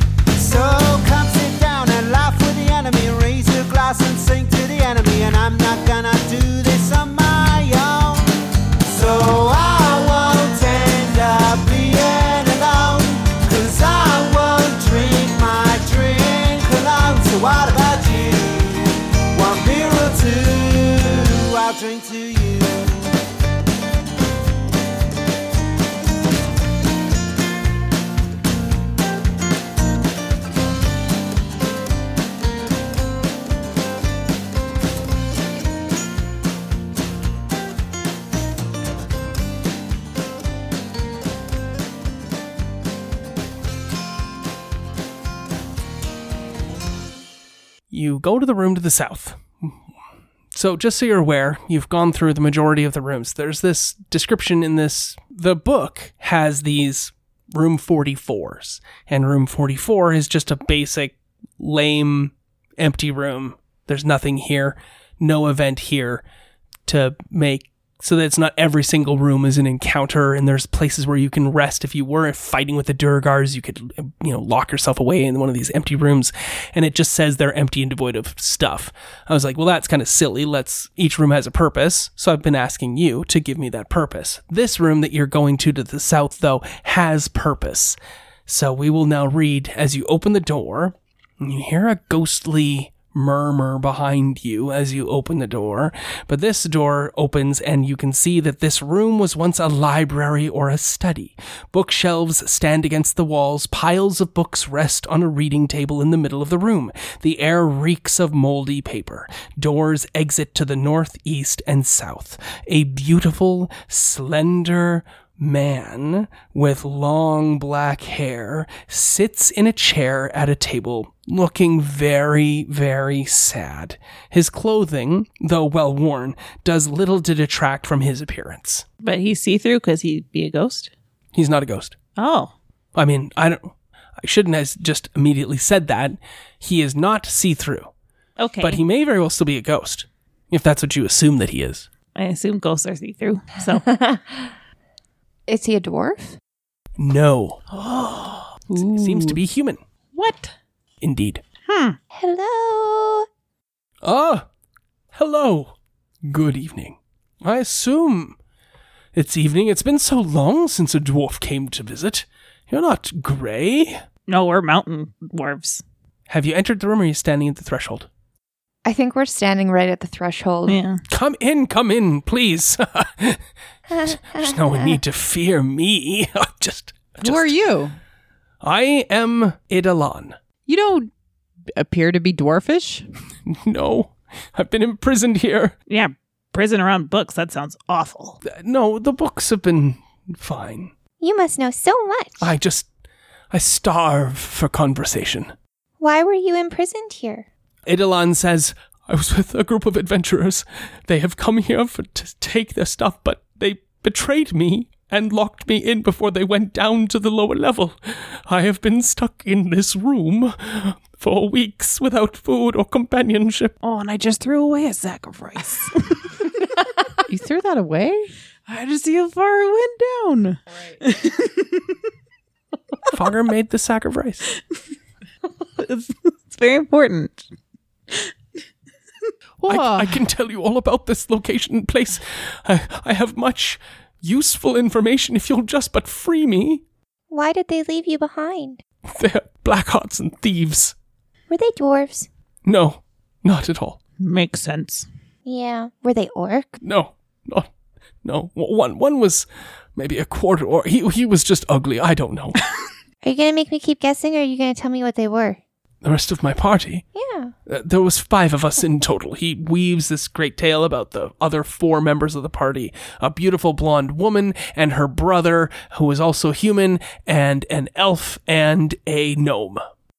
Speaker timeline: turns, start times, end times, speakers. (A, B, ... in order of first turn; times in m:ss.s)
0:00.4-0:08.3 A
0:08.9-0:23.2 A
0:47.9-0:49.7 B
0:50.5-1:06.2 B
1:06.9-2:08.9 B
2:09.0-2:10.9 C
2:11.4-2:12.0 B
2:12.2-2:12.5 C
2:13.0-2:17.9 B
2:18.4-2:18.8 C
2:18.6-2:21.9 B
2:22.2-2:24.0 C
2:23.9-2:24.2 D
2:25.5-2:26.4 D
2:27.0-2:27.7 B
2:27.8-2:28.6 C
2:28.7-2:29.4 E
2:28.8-2:29.8 B
2:30.1-2:30.5 C
2:31.0-2:31.4 B
2:31.7-2:32.0 C
2:32.1-2:33.3 D
2:34.0-2:34.4 B
2:35.1-2:35.7 B
2:36.2-2:38.4 B
2:39.2-2:44.0 B
2:44.3-2:45.8 C
2:46.3-2:48.1 B
2:48.8-2:50.8 D
2:50.7-2:51.0 C
2:51.1-2:53.4 B
2:53.9-2:55.0 D
2:54.4-2:57.6 B
2:57.2-2:58.0 E
2:58.6-3:00.4 B
3:00.7-3:01.1 E
3:01.8-3:03.1 E
3:03.5-3:05.8 B
3:05.9-3:08.4 C
3:08.4-3:10.9 B
3:11.2-3:12.5 D
3:12.4-3:12.9 B
3:13.5-3:15.5 B
3:16.0-3:17.5 D
3:17.9-3:33.7 B
3:33.8-3:36.4 C
3:37.3-3:38.3 E
3:38.7-3:42.0 C
3:43.1-3:44.5 B
3:45.8-3:47.4 C
3:49.6-3:50.2 E
3:49.7-3:56.8 B
3:57.3-3:58.8 D
3:59.1-4:01.0 B
4:01.5-4:02.3 D
4:02.6-4:04.0 B
4:04.2-4:05.1 C
4:05.4-4:06.8 D
4:06.8-4:07.7 B
4:08.2-4:09.5 B
4:10.0-4:12.6 B
4:13.2-4:15.6 D
4:16.0-4:17.0 B
4:17.2-4:17.5 D
4:17.7-4:29.8 B